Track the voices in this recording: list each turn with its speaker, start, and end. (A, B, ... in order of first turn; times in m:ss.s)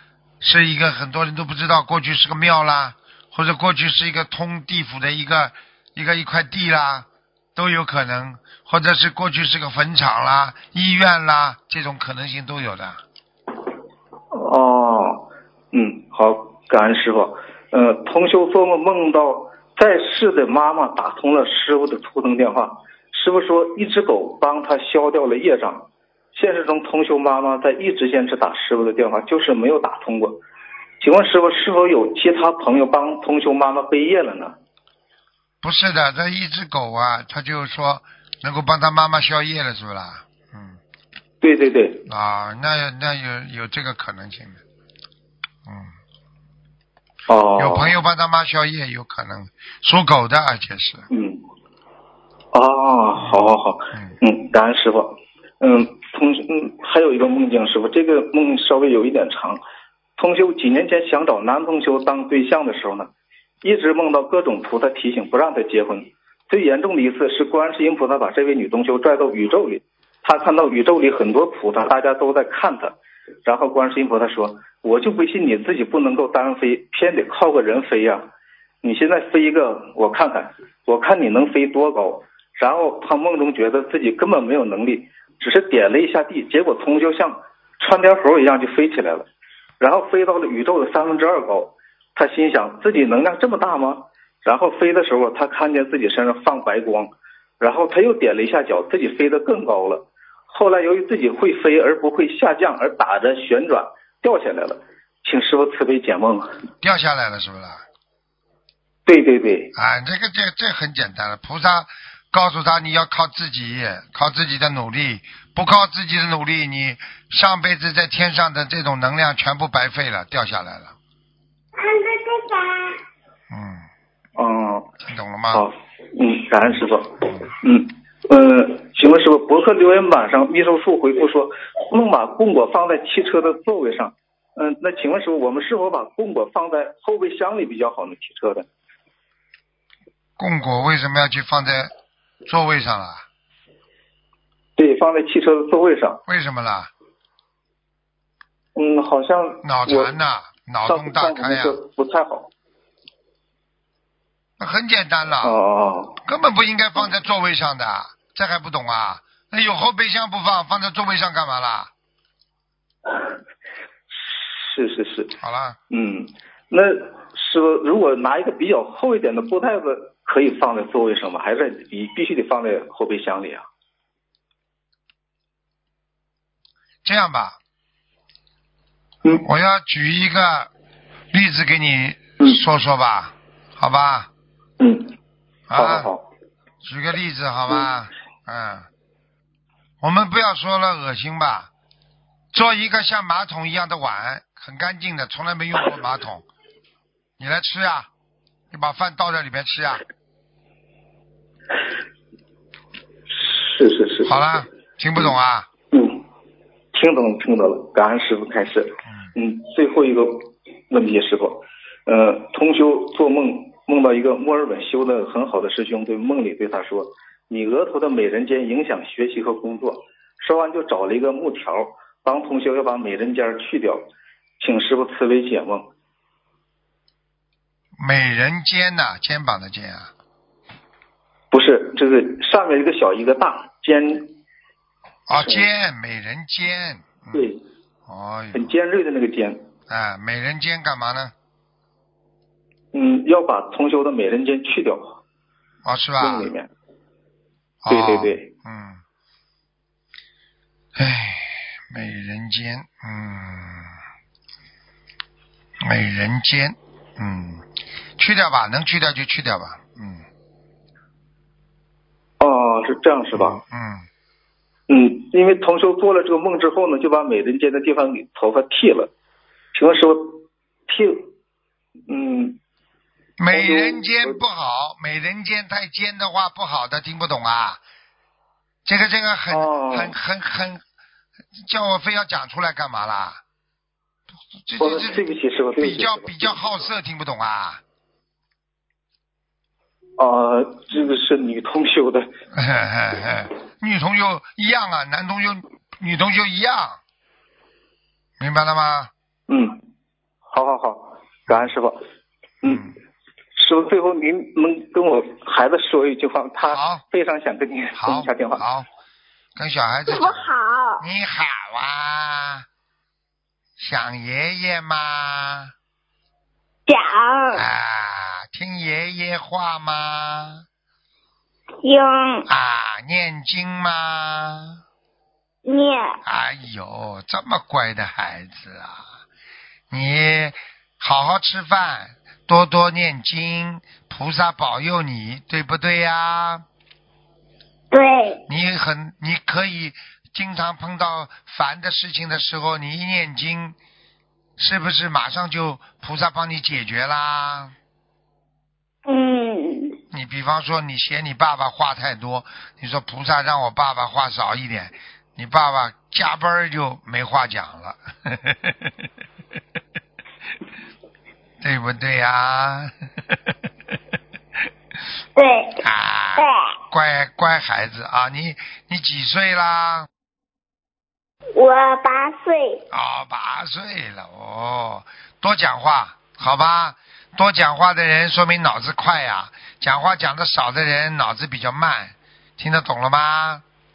0:00.4-0:13.0 A
0:14.3-0:30.4 B
0:31.0-0:34.6 B
0:35.6-0:40.8 A
0:41.4-0:42.0 B
0:42.0-0:44.6 A
0:45.6-0:45.9 A
0:47.3-0:47.9 B
0:47.6-0:51.1 A
0:51.1-0:51.4 B
0:52.5-0:59.6 B
1:00.2-1:03.1 B
1:03.6-1:18.3 B
1:18.8-1:29.3 B
1:29.8-1:46.5 B
1:46.8-1:47.8 A
1:49.0-1:49.7 B
1:49.7-2:00.9 A
2:01.8-2:02.9 C
2:03.5-2:03.8 A
2:04.4-2:04.9 B
2:05.0-2:05.7 A
2:05.5-2:18.7 B
2:20.4-2:21.9 A
2:22.4-2:23.2 A
2:24.8-2:26.2 B
2:26.3-2:26.9 A
2:28.7-2:30.1 B
2:29.6-2:31.8 A
2:30.8-2:32.5 B
2:34.6-2:35.6 A
2:35.4-2:36.2 B
2:36.2-2:41.9 A
2:44.1-2:45.3 B
2:45.4-2:45.8 A
2:45.9-2:53.6 B
2:57.0-2:57.6 A
2:59.3-3:00.7 A
3:01.3-3:04.3 A
3:04.8-3:05.1 B
3:05.7-3:06.1 A
3:05.7-3:06.2 B
3:06.8-3:08.9 A
3:10.0-3:11.7 A
3:12.5-3:16.4 A
3:17.4-3:18.1 A
3:18.7-3:20.0 A
3:23.3-3:24.4 B
3:24.2-3:25.7 A
3:25.9-3:26.2 B
3:26.9-3:44.1 B
3:44.6-3:45.9 B
3:48.0-3:50.1 A
3:51.5-3:54.4 B
3:55.3-3:57.5 A
3:55.3-3:55.6 B
3:57.3-3:57.6 B
3:58.1-3:58.7 A
3:58.5-3:59.7 B
3:59.9-4:01.3 A
4:02.9-4:05.2 B
4:05.8-4:06.5 A
4:06.2-4:06.7 B
4:07.8-4:09.0 A
4:07.9-4:08.5 B
4:11.0-4:13.9 A
4:15.8-4:17.6 A
4:18.2-4:20.2 A
4:22.4-4:23.6 B
4:23.3-4:24.0 A
4:24.9-4:29.1 B
4:29.7-4:31.3 B
4:32.1-4:32.6 B
4:33.4-4:37.8 A
4:33.5-4:34.4 B
4:38.8-4:40.8 A
4:39.5-4:40.1 B
4:41.6-4:43.4 A
4:44.6-4:45.2 A
4:44.8-4:46.6 B
4:45.8-4:47.8 A
4:50.2-4:52.3 B
4:52.5-4:57.0 A
4:58.4-4:59.1 A
4:59.5-4:59.8 B
5:00.5-5:02.0 B
5:02.6-5:02.9 B
5:02.7-5:02.9 A
5:03.5-5:08.6 B
5:06.7-5:07.0 A
5:08.0-5:08.9 A
5:09.6-5:10.5 A
5:10.1-5:11.0 C
5:11.0-5:12.6 A
5:13.8-5:15.7 A
5:16.9-5:17.6 C
5:17.5-5:20.6 A
5:21.8-5:22.5 C
5:22.4-5:24.8 A
5:25.6-5:26.2 C
5:26.2-5:29.0 A
5:29.9-5:36.6 A
5:37.9-5:38.4 C
5:38.5-5:43.8 A
5:44.6-5:47.7 A
5:49.0-5:50.0 C
5:50.1-5:58.9 A
6:01.6-6:02.9 A
6:05.4-6:05.8 C
6:05.8-6:10.1 A
6:06.4-6:06.7 C
6:11.5-6:12.8 C
6:12.9-6:23.6 A